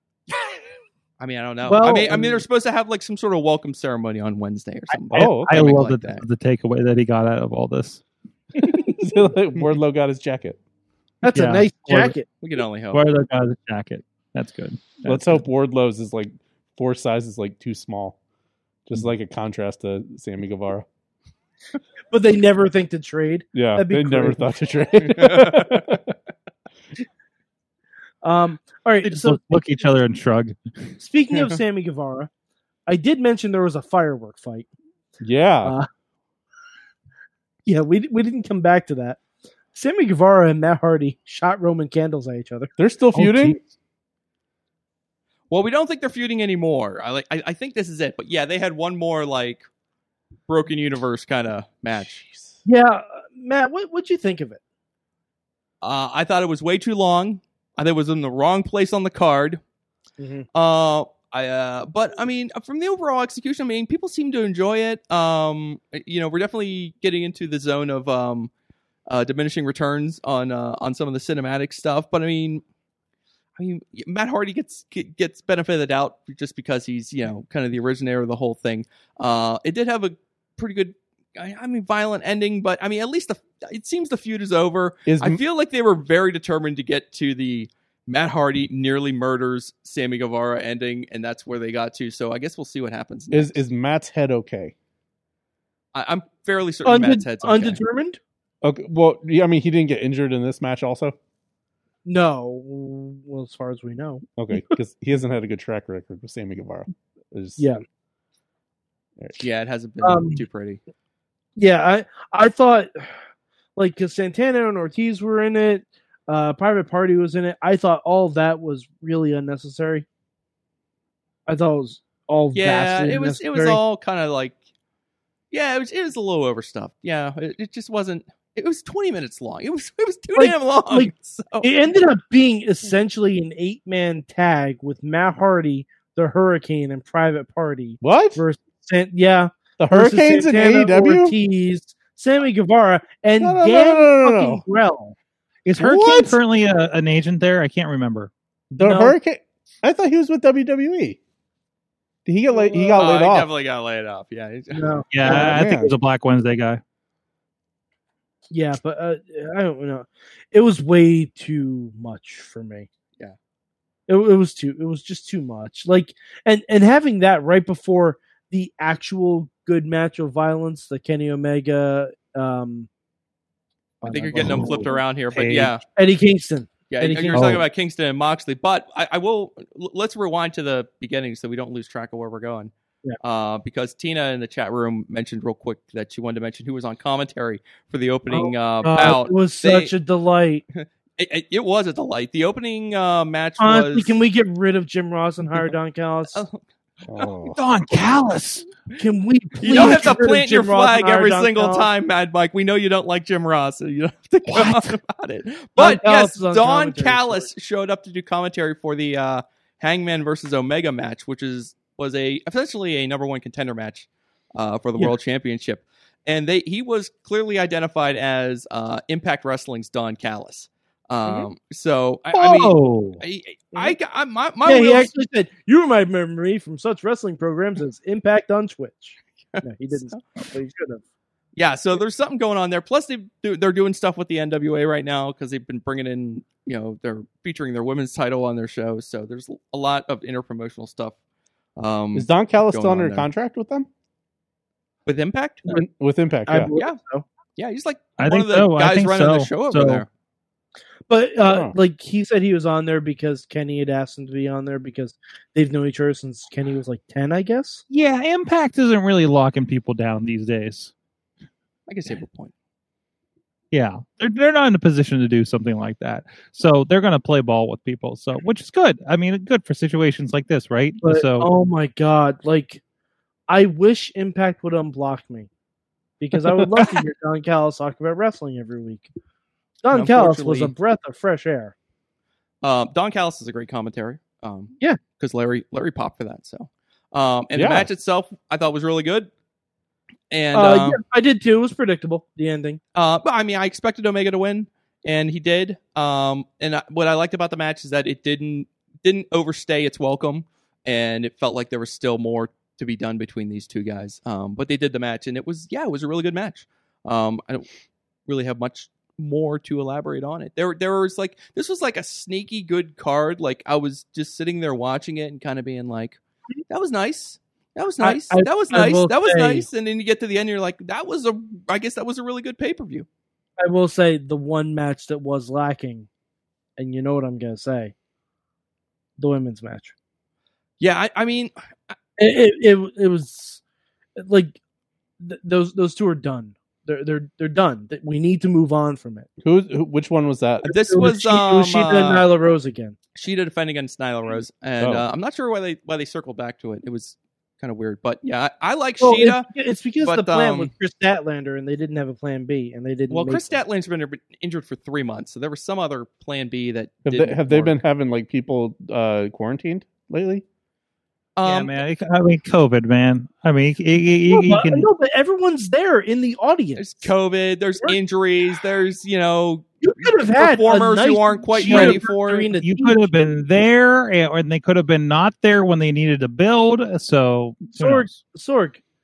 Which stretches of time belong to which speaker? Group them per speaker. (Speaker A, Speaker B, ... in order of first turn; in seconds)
Speaker A: 1.2-6.2, 12.4-13.1, 25.2-25.8, 45.5-49.6, 50.5-52.2, 55.8-59.6, 60.5-68.5, 69.1-72.6, 73.6-93.6, 95.9-97.8, 109.4-110.8, 122.5-124.6, 125.5-131.7, 153.0-154.9, 174.1-175.8, 176.9-189.9, 190.8-194.1, 196.3-196.6, 199.6-225.1, 229.6-230.2, 231.6-241.2, 241.8-243.3, 245.1-245.7, 247.6-250.1, 261.9-262.5, 279.9-280.7, 282.6-289.3, 290.3-291.0, 292.9-307.7, 308.3-323.1, 330.8-331.5, 340.7-342.3, 343.1-349.5, 350.0-350.7, 353.1-357.8, 361.4-361.8, 366.8-372.5
Speaker B: 1.6-2.4, 11.2-12.3, 22.1-24.6, 28.2-29.6, 31.0-32.3, 32.9-34.7, 37.7-39.2, 39.7-42.7, 52.7-54.6, 60.2-60.5, 96.8-98.2, 102.0-104.7, 110.0-110.4, 111.6-113.1, 113.8-120.1, 121.5-123.8, 130.3-145.2, 145.8-146.3, 148.8-149.2, 152.5-153.0, 154.7-155.6, 158.5-162.9, 164.1-172.9, 174.0-175.0, 176.0-177.6, 188.3-190.6, 193.6-196.4, 199.0-201.9, 205.8-207.5, 224.6-231.0, 246.5-247.2, 251.1-257.8, 271.0-272.8, 273.5-275.5, 276.2-279.1, 279.8-281.8, 290.5-292.8, 318.0-319.7, 323.6-326.1, 326.8-327.9, 329.2-329.9, 332.2-333.6, 334.2-334.6, 335.2-339.3, 340.6-343.0, 349.0-353.6, 364.3-367.1, 369.8-373.1, 377.7-378.8
Speaker C: 5.1-8.0, 11.3-12.2, 12.9-15.4, 29.0-30.6, 43.1-43.6, 145.7-148.3, 155.1-156.8, 174.4-174.8, 175.3-175.8, 177.3-177.6, 197.5-198.7, 204.5-205.0, 222.3-223.2, 248.2-250.0, 257.9-260.9, 263.7-271.5, 361.4-364.9, 371.6-372.0, 372.6-378.1
Speaker D: 5.1-5.7, 8.7-10.6, 15.0-18.2, 18.9-20.9, 23.5-26.0, 35.2-35.8, 42.8-43.6, 52.0-52.6, 85.1-85.4, 93.3-94.7, 98.6-101.2, 104.4-107.7, 138.0-138.4, 139.8-141.3, 143.4-144.6, 145.9-146.3, 148.7-151.2, 152.3-153.5, 155.3-156.0, 197.1-197.6, 242.1-243.9, 245.8-246.7, 251.5-251.8, 287.5-287.9, 339.4-341.1, 344.8-345.1, 357.1-360.4